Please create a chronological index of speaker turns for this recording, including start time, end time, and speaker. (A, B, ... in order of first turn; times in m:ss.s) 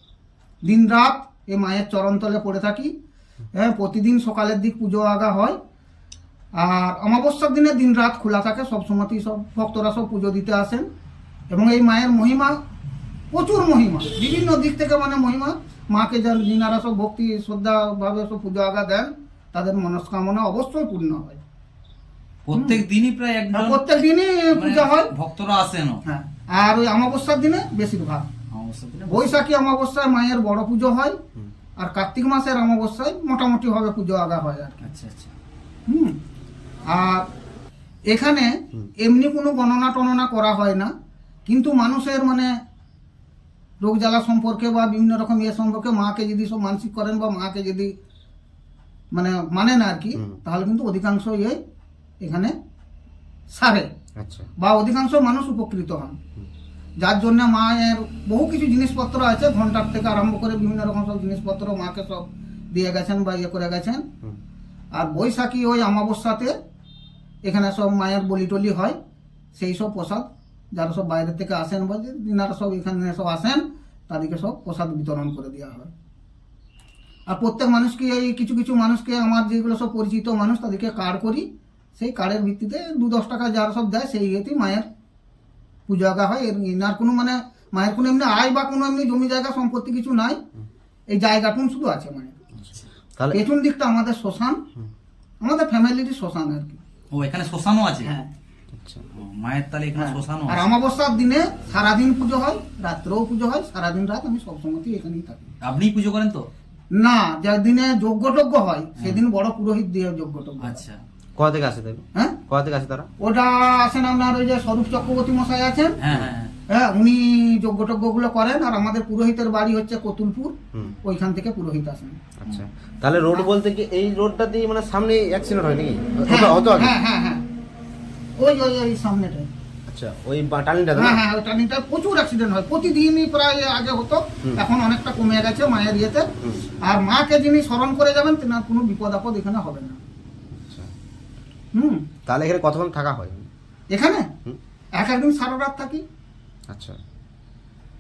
0:00.6-0:02.9 A
0:03.5-0:05.6 A
0:06.6-0:10.8 A
0:11.5-0:12.6 A
0:13.3-0:21.4 A
0:22.4-0:23.9 B
0:22.5-0:22.8 A
0:23.5-0:25.1 A
0:24.5-0:26.0 B
0:26.0-0:28.3 A
0:28.5-0:29.4 B
0:29.1-0:31.2 A
0:31.8-0:34.9 A
0:34.8-0:35.3 B
0:35.9-0:36.2 A
0:36.9-0:37.2 A
0:38.1-0:40.9 A
0:41.5-0:42.5 A
0:43.8-0:47.9 A
0:49.1-0:51.6 A
0:52.2-0:52.5 A
0:53.5-0:53.9 A
0:54.2-0:54.5 C
0:54.6-0:56.2 A
0:57.0-1:04.0 A
1:05.0-1:06.5 A
1:07.4-1:09.0 A
1:09.6-1:15.9 A
1:17.3-1:21.4 A
1:22.0-1:24.8 A
1:25.9-1:30.4 A
1:31.1-1:32.4 A
1:32.6-1:33.4 C
1:33.3-1:34.6 A
1:35.4-1:36.8 A
1:37.1-1:38.1 B
1:38.0-1:38.3 A
1:38.7-1:39.0 C
1:39.1-1:40.7 B
1:40.0-1:45.5 A
1:45.6-1:46.4 B
1:46.9-1:50.8 A
1:50.6-1:51.0 B
1:51.4-1:53.1 C
1:53.2-1:56.0 A
1:56.0-1:56.5 B
1:56.7-2:02.2 A
2:02.4-2:06.9 C
2:06.2-2:07.4 A
2:08.4-2:09.5 A
2:09.9-2:11.2 C
2:10.9-2:16.3 A
2:16.4-2:16.6 C
2:16.8-2:20.0 A
2:20.5-2:20.9 C
2:21.7-2:22.1 A
2:22.2-2:23.5 C
2:23.9-2:24.3 A
2:25.0-2:26.0 A
2:26.7-2:27.0 C